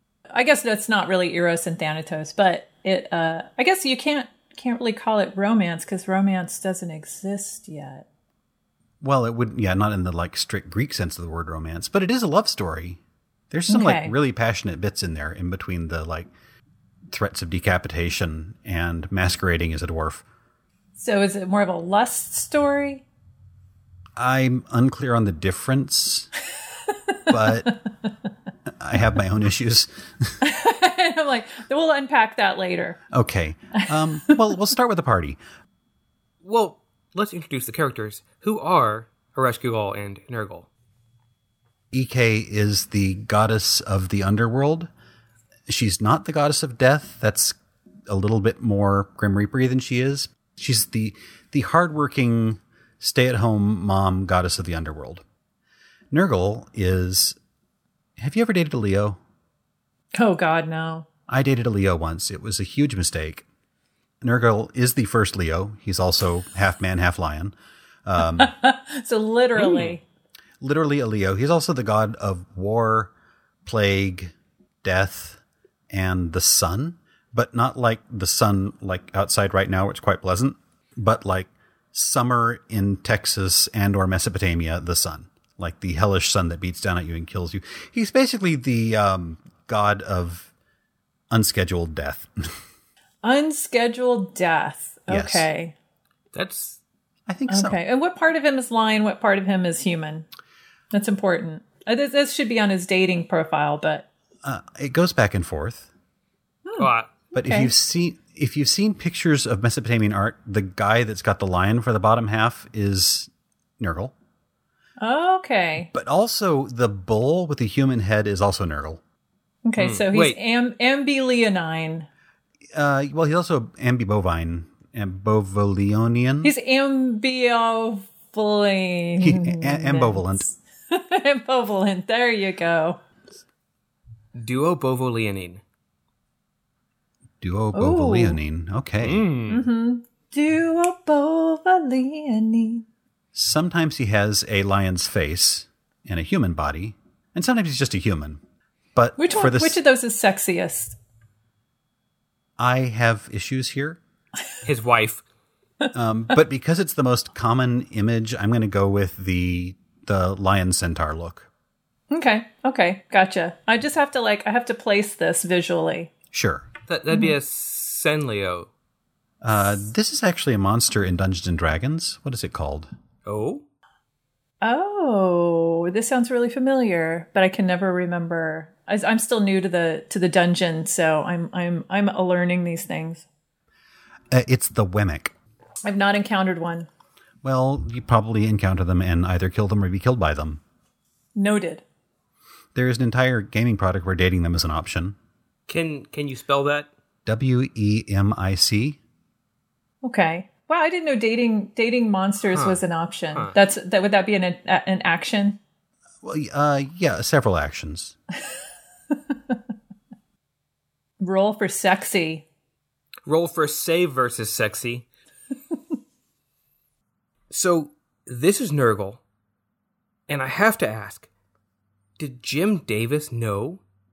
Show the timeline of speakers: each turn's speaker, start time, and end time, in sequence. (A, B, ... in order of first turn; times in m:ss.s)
0:00.3-0:08.0 A
0:09.0-0:13.0 B
0:13.5-0:16.3 B
0:13.7-0:14.1 A
0:17.1-0:20.2 B
0:21.0-0:23.0 A
0:24.2-0:26.3 B
0:27.3-0:27.7 B
0:28.7-0:30.3 B
0:30.4-0:33.0 A
0:33.1-0:35.4 B
0:33.7-0:34.5 A
0:36.4-0:40.7 C
0:41.9-0:44.9 B
0:45.7-0:47.6 B
0:48.1-0:55.2 B
0:56.1-0:57.4 B
0:58.2-0:59.2 B
1:00.1-1:01.1 A
1:01.3-1:03.4 B
1:04.2-1:07.5 B
1:08.0-1:08.5 B
1:08.2-1:10.0 A
1:09.6-1:09.9 C
1:10.6-1:13.1 B
1:13.6-1:30.5 B
1:31.3-1:32.6 B
1:33.2-1:35.7 A
1:35.1-1:35.5 B
1:36.3-1:36.8 C
1:37.3-1:37.8 B
1:37.5-1:40.3 A
1:40.9-1:44.1 A
1:44.4-1:45.9 B
1:46.6-1:47.7 A
1:46.8-1:47.1 C
1:47.3-1:54.1 B
1:55.0-1:55.9 A
1:55.9-1:59.0 B
1:59.6-2:02.1 A
1:59.8-2:00.4 C
2:02.7-2:06.5 B
2:06.4-2:13.0 A
2:09.2-2:10.4 B
2:14.3-2:15.6 C
2:17.4-2:19.3 B
2:17.7-2:18.4 A
2:19.0-2:19.6 C
2:19.5-2:22.8 A
2:23.3-2:28.4 B
2:28.9-2:29.8 B
2:29.2-2:31.0 A
2:32.6-2:34.0 B
2:34.6-2:35.2 C
2:35.9-2:41.5 B
2:42.1-2:46.1 A
2:46.3-2:46.7 B
2:46.9-2:48.7 C
2:49.4-2:52.9 B
2:53.2-2:53.6 C
2:54.6-3:03.2 A
3:04.3-3:05.3 B
3:05.8-3:06.9 A
3:07.4-3:10.6 B
3:11.3-3:11.8 A
3:12.7-3:15.2 B
3:15.7-3:16.9 C
3:17.2-3:19.0 B
3:20.0-3:25.6 A
3:22.5-3:22.8 C
3:26.2-3:28.1 B
3:31.2-3:32.4 A
3:33.2-3:35.1 C
3:37.5-3:39.2 C
3:40.3-3:41.3 C
3:42.2-3:43.8 C